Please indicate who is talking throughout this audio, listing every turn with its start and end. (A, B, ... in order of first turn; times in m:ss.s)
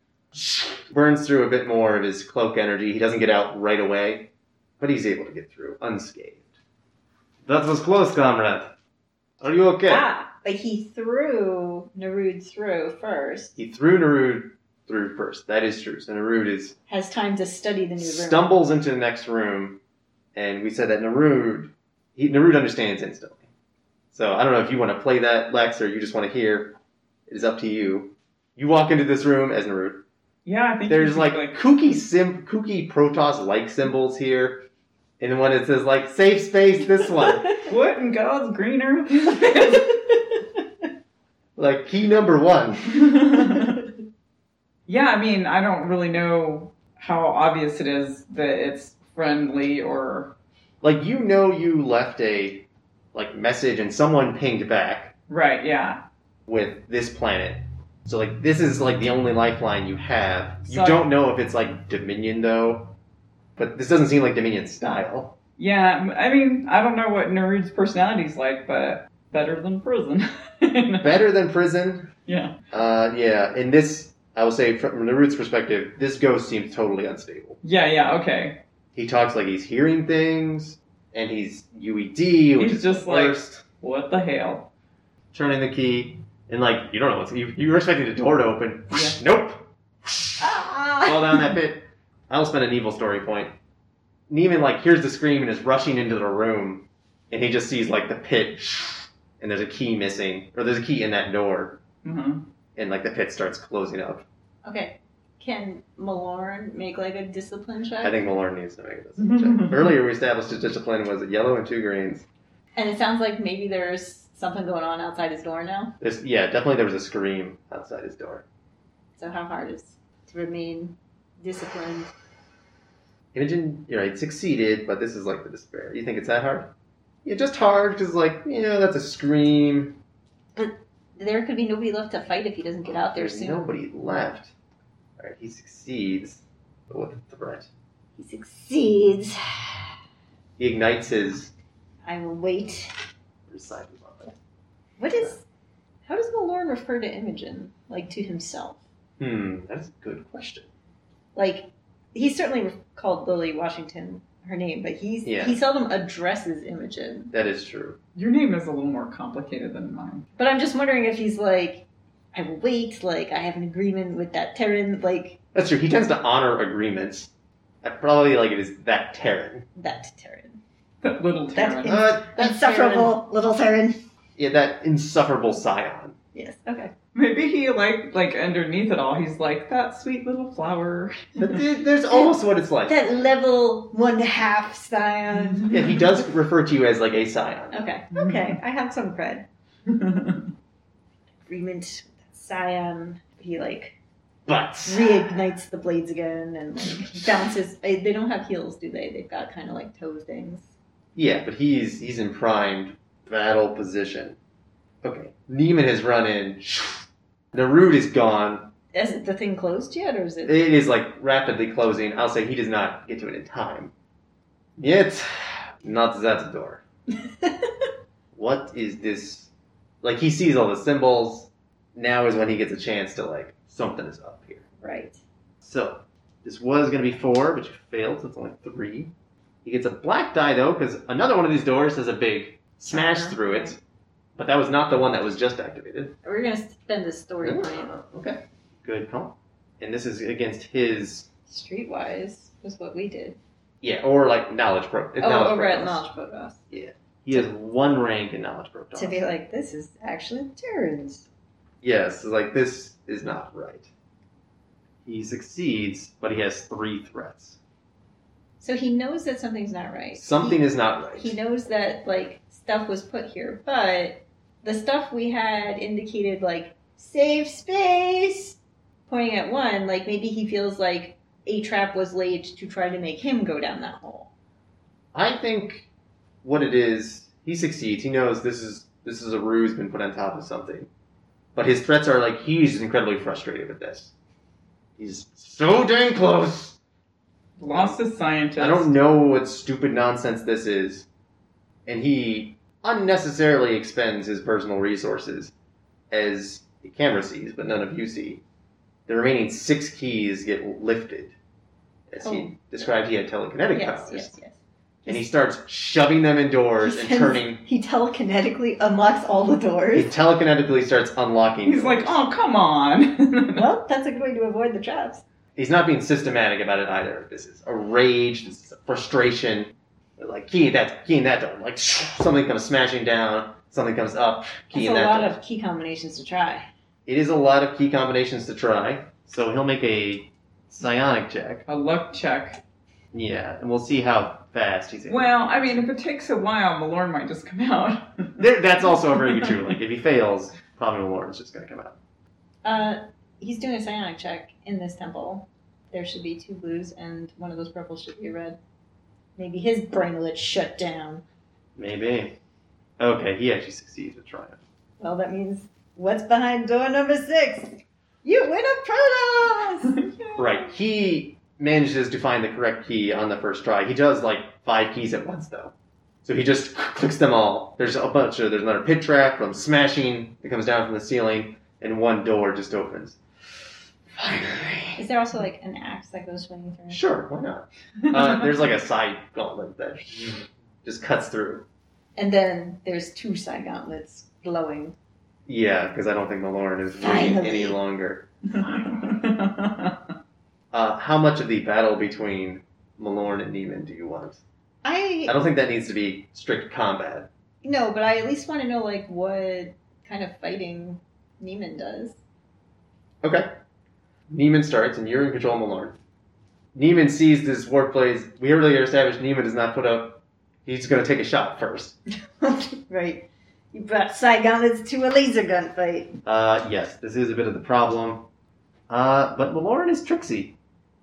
0:00.3-0:06.4 A
0:07.4-0:08.7 A
0:09.4-0:10.0 A
0:09.9-0:13.5 B
0:13.6-0:16.8 A
0:16.9-0:18.5 B
0:18.0-0:19.8 A
0:20.3-0:23.4 A
0:24.1-0:26.8 A
0:27.3-0:30.0 A
0:30.4-0:31.6 C
0:30.9-0:34.6 A
0:35.2-0:37.5 A
0:37.2-0:37.7 B
0:37.7-0:40.0 C
0:39.5-0:40.4 B
0:41.6-0:43.0 A
0:42.9-0:43.8 C
0:44.9-0:50.3 C
0:50.8-0:55.1 A
0:55.3-0:56.0 C
0:56.5-1:02.9 A
1:00.7-1:01.0 C
1:03.6-1:05.3 A
1:05.6-1:11.2 C
1:11.0-1:12.1 A
1:12.3-1:12.5 C
1:12.7-1:17.6 A
1:17.6-1:18.6 C
1:18.9-1:23.6 A
1:22.6-1:24.7 C
1:25.3-1:30.5 A
1:28.9-1:29.2 C
1:30.4-1:31.5 B
1:31.0-1:33.5 A
1:34.3-1:41.8 A
1:42.0-1:42.4 C
1:42.8-1:44.2 A
1:44.6-1:48.2 B
1:48.0-1:52.2 A
1:49.2-1:49.9 C
1:52.8-1:55.9 B
1:56.0-1:58.4 A
1:59.2-2:02.1 B
2:03.3-2:06.7 A
2:07.2-2:10.0 A
2:10.5-2:13.7 B
2:13.1-2:14.5 A
2:15.2-2:17.7 A
2:18.2-2:19.9 B
2:20.6-2:21.5 A
2:22.0-2:22.9 B
2:23.5-2:24.3 A
2:25.0-2:25.4 B
2:26.0-2:28.8 B
2:29.2-2:30.7 A
2:31.3-2:37.3 B
2:35.2-2:35.6 A
2:37.3-2:38.0 A
2:38.1-2:40.2 C
2:40.4-2:45.4 B
2:45.5-2:47.3 A
2:47.8-2:49.6 A
2:49.7-2:50.6 B
2:51.0-2:52.0 C
2:51.5-2:54.0 B
2:51.8-2:53.2 A
2:54.4-2:56.1 A
2:56.3-2:56.9 B
2:57.1-3:01.6 C
3:01.4-3:02.9 A
3:02.8-3:05.7 B
3:05.7-3:07.9 A
3:07.7-3:09.4 B
3:08.1-3:08.6 C
3:09.9-3:10.5 C
3:11.5-3:14.0 B
3:14.4-3:15.3 A
3:14.8-3:20.7 B
3:21.1-3:24.4 A
3:25.0-3:28.7 A
3:28.9-3:30.6 B
3:30.4-3:33.9 A
3:34.8-3:36.8 A
3:37.4-3:37.7 B
3:38.3-3:39.5 A
3:40.0-3:44.6 A
3:44.8-3:45.2 B
3:45.6-3:49.1 A
3:49.6-3:53.8 A
3:52.9-3:53.7 B
3:54.4-3:56.1 A
3:56.2-3:57.9 B
3:57.4-4:01.3 A
4:01.5-4:03.4 B
4:03.8-4:06.0 A
4:05.2-4:06.6 B
4:06.7-4:09.2 A
4:08.9-4:11.3 B
4:11.8-4:13.9 A
4:15.0-4:17.6 A
4:18.6-4:34.3 B
4:20.2-4:21.3 A
4:35.1-4:35.9 A
4:36.4-4:40.9 A
4:41.5-4:44.1 A
4:45.0-4:46.8 A
4:47.6-4:48.9 C
4:48.6-4:51.1 A
4:51.8-4:55.5 A
4:56.1-4:58.4 A
4:59.1-5:01.3 A
5:02.1-5:04.3 A
5:02.2-5:02.5 B
5:03.7-5:05.2 B
5:05.0-5:07.6 A
5:06.8-5:10.1 B
5:09.9-5:12.2 A
5:11.6-5:13.6 C
5:13.5-5:15.2 B
5:15.6-5:25.4 A
5:24.7-5:26.7 B
5:27.0-5:31.6 A
5:31.7-5:32.6 C
5:33.1-5:35.3 A
5:35.1-5:39.7 C
5:38.4-5:42.0 A
5:42.6-5:48.6 B
5:49.4-5:51.2 B
5:51.8-5:52.3 A
5:53.0-5:54.6 A
5:55.0-6:00.4 B
6:00.4-6:05.7 A
6:06.2-6:13.2 A
6:14.2-6:15.0 A
6:15.0-6:17.0 B
6:16.9-6:21.6 A
6:22.2-6:24.9 B
6:25.5-6:28.3 A
6:27.0-6:27.8 B
6:28.5-6:30.0 C
6:30.7-6:34.4 A
6:34.8-6:35.3 B
6:35.3-6:37.3 A
6:37.6-6:42.2 B
6:43.2-6:43.5 A
6:44.3-6:46.0 A
6:46.7-6:52.0 A
6:52.4-6:56.1 B
6:56.2-6:58.2 A
6:58.9-7:00.5 A